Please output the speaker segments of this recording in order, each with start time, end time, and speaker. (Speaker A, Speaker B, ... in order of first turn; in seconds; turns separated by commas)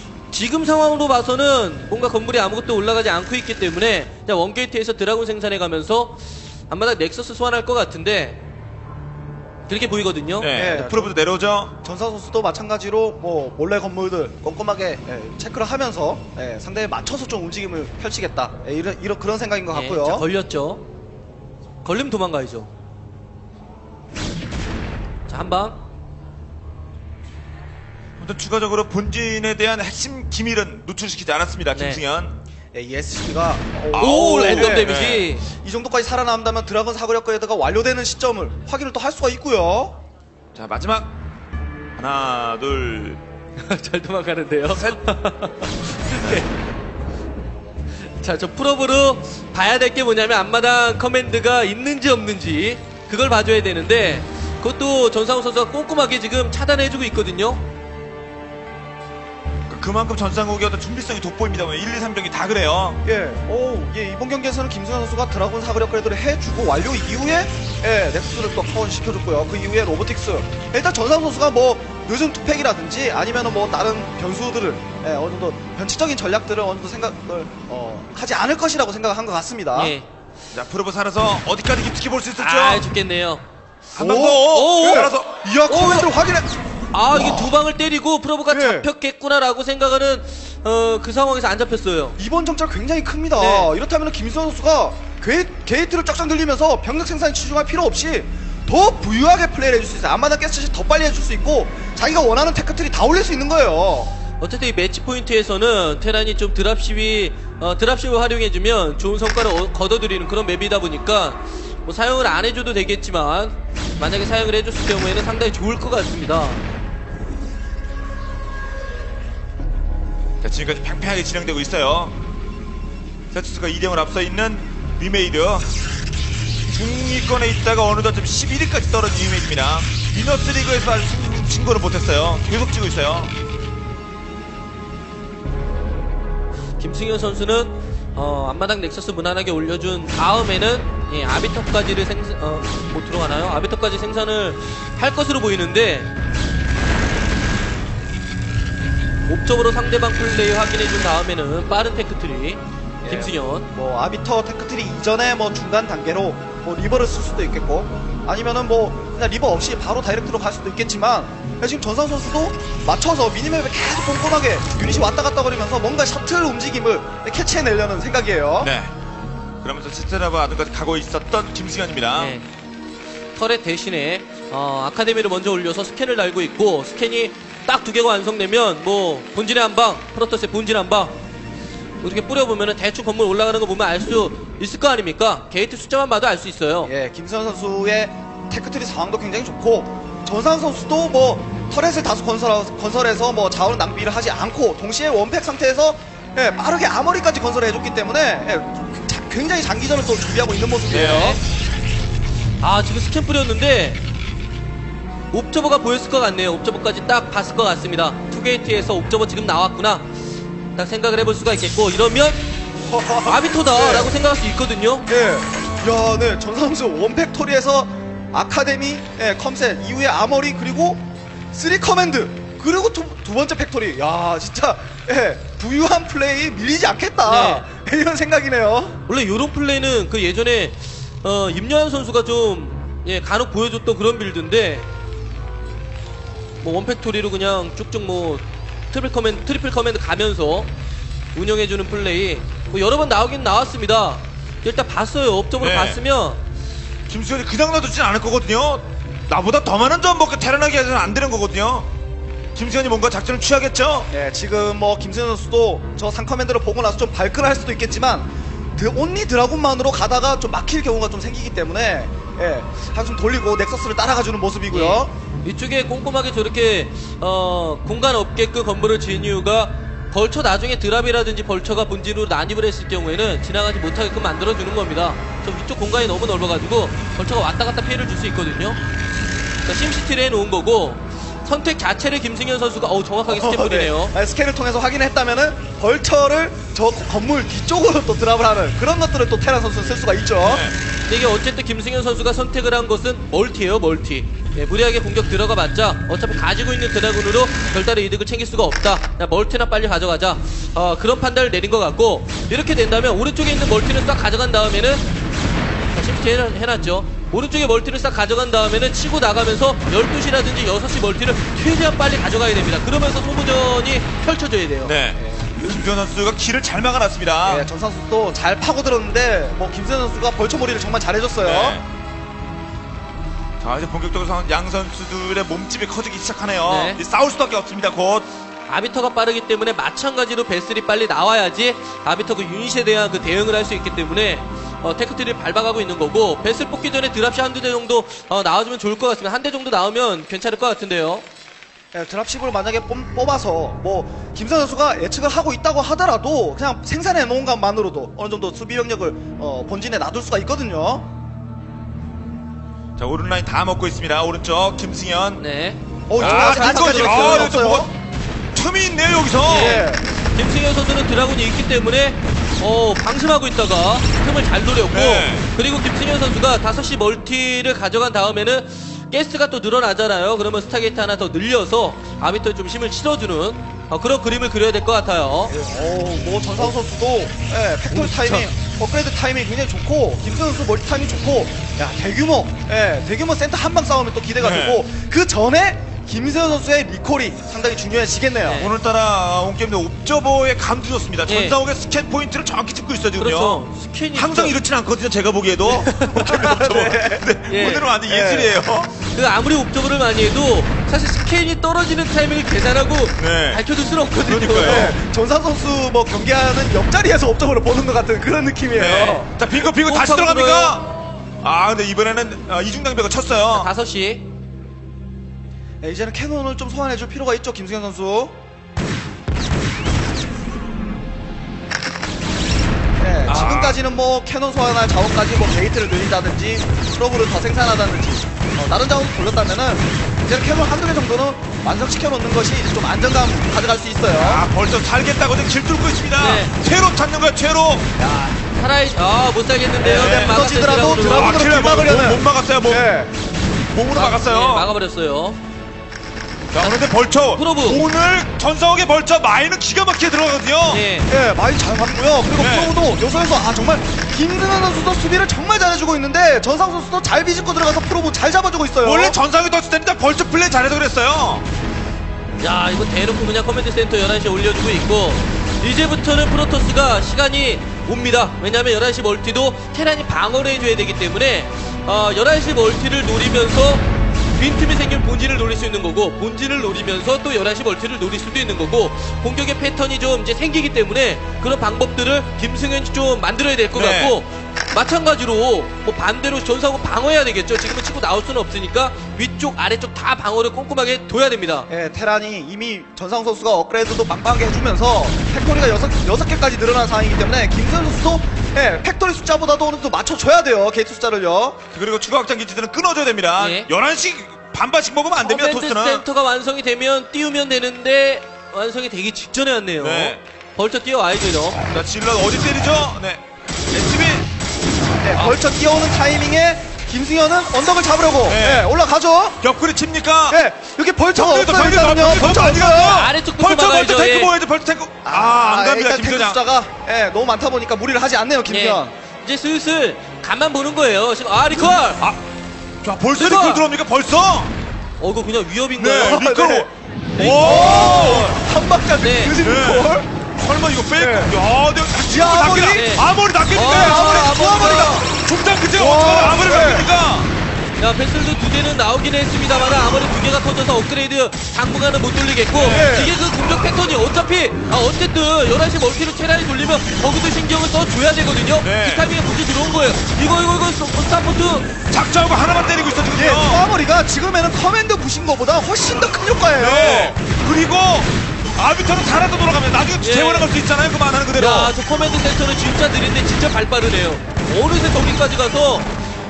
Speaker A: 0.3-8.4, Speaker A: 9.7-10.5, Speaker B: 10.4-11.7, Speaker C: 10.5-11.2, Speaker C: 11.8-20.3, Speaker A: 19.7-20.8, Speaker A: 21.8-22.7, Speaker A: 25.3-25.8, Speaker B: 28.2-32.4, Speaker A: 31.7-32.0, Speaker C: 32.7-40.0, Speaker B: 33.9-35.3, Speaker A: 34.0-35.5, Speaker B: 40.5-41.1, Speaker B: 42.0-43.2, Speaker A: 43.6-46.5, Speaker B: 44.7-45.0, Speaker A: 48.1-57.6, Speaker B: 59.7-63.0, Speaker C: 63.0-80.0, Speaker A: 79.7-80.1, Speaker B: 80.5-82.9, Speaker A: 82.4-83.4, Speaker B: 83.9-85.4, Speaker C: 84.0-86.5, Speaker A: 84.3-85.1, Speaker A: 85.7-86.1, Speaker A: 86.9-92.2, Speaker C: 87.1-87.6, Speaker C: 88.5-88.9, Speaker C: 92.2-104.1, Speaker A: 93.4-93.7, Speaker A: 104.4-116.6, Speaker B: 120.4-122.1, Speaker B: 123.3-125.7, Speaker B: 126.7-133.3, Speaker A: 136.8-146.1, Speaker A: 149.3-153.7, Speaker C: 153.0-168.7, Speaker B: 168.6-168.9, Speaker B: 169.6-172.3, Speaker A: 172.2-172.5, Speaker A: 173.4-181.1, Speaker A: 182.0-186.9, Speaker C: 186.8-201.4, Speaker B: 200.9-201.4, Speaker A: 200.9-201.4, Speaker A: 202.6-204.0, Speaker A: 205.3-210.1, Speaker A: 210.8-212.4, Speaker C: 212.9-214.2, Speaker A: 213.2-215.1, Speaker C: 215.1-229.0, Speaker A: 227.2-227.6, Speaker A: 229.1-234.9, Speaker A: 236.6-240.7, Speaker A: 241.3-246.4, Speaker B: 245.6-246.0, Speaker B: 247.1-251.9, Speaker B: 252.6-254.1, Speaker C: 254.1-265.1, Speaker A: 264.7-278.8, Speaker A: 279.7-284.1, Speaker C: 283.3-290.7, Speaker B: 290.4-290.8, Speaker A: 291.1-305.0, Speaker A: 305.9-314.9, Speaker B: 314.8-317.7, Speaker C: 315.2-315.5, Speaker C: 317.4-321.8, Speaker B: 321.4-321.9, Speaker B: 323.6-328.3, Speaker A: 326.7-327.0, Speaker A: 328.7-341.2, Speaker C: 341.9-351.1, Speaker B: 353.0-355.4, Speaker A: 355.4-357.6, Speaker C: 356.1-357.9, Speaker B: 356.2-357.9, Speaker B: 358.5-359.8, Speaker C: 359.4-360.0, Speaker A: 359.5-375.5, Speaker B: 364.9-365.5, Speaker C: 375.5-388.7, Speaker A: 377.9-378.5, Speaker B: 384.4-384.8, Speaker A: 388.4-388.7, Speaker B: 388.6-398.9, Speaker A: 391.3-391.6, Speaker A: 393.2-394.6, Speaker A: 395.9-396.3, Speaker C: 396.0-397.3, Speaker A: 397.5-397.9, Speaker C: 398.1-398.5, Speaker A: 399.1-404.9, Speaker B: 403.2-403.6, Speaker B: 404.2-404.9, Speaker C: 404.6-409.3, Speaker B: 408.7-410.9, Speaker A: 409.4-410.8, Speaker B: 411.4-413.7, Speaker A: 413.5-414.2, Speaker C: 415.8-418.4, Speaker C: 423.0-434.4, Speaker B: 423.3-423.8, Speaker B: 434.1-437.9, Speaker A: 436.2-436.5, Speaker A: 438.0-441.4, Speaker C: 439.8-443.1, Speaker B: 440.0-440.4, Speaker B: 441.0-442.9, Speaker B: 443.7-444.7, Speaker A: 443.9-445.4, Speaker B: 446.5-450.9, Speaker A: 446.6-447.8, Speaker A: 450.7-451.1, Speaker C: 451.1-459.2, Speaker B: 452.4-452.8, Speaker B: 458.8-461.4, Speaker A: 462.4-491.7, Speaker B: 483.7-484.2, Speaker C: 491.7-501.6, Speaker B: 501.7-506.1, Speaker A: 503.4-503.7, Speaker A: 505.2-511.6, Speaker B: 509.8-510.2, Speaker B: 511.7-514.3, Speaker C: 515.0-519.4, Speaker B: 518.3-518.7, Speaker B: 519.4-520.4, Speaker C: 520.3-523.0, Speaker B: 521.1-526.4, Speaker A: 522.8-524.3, Speaker C: 525.1-529.0, Speaker A: 528.5-532.0, Speaker B: 532.8-534.5, Speaker A: 533.1-533.6, Speaker A: 535.0-536.3, Speaker B: 535.8-538.4, Speaker C: 536.0-536.7, Speaker A: 537.2-537.7, Speaker C: 537.2-540.1, Speaker A: 539.0-539.3, Speaker B: 539.4-547.3, Speaker C: 541.0-541.3, Speaker C: 542.1-542.9, Speaker A: 542.7-545.1, Speaker C: 543.6-544.9, Speaker C: 545.8-546.9, Speaker A: 547.8-561.8, Speaker B: 552.5-553.0, Speaker C: 552.6-553.1, Speaker B: 558.6-559.1, Speaker B: 561.9-563.6, Speaker C: 563.1-567.2, Speaker B: 566.6-571.7, Speaker A: 570.0-570.5, Speaker A: 571.4-575.9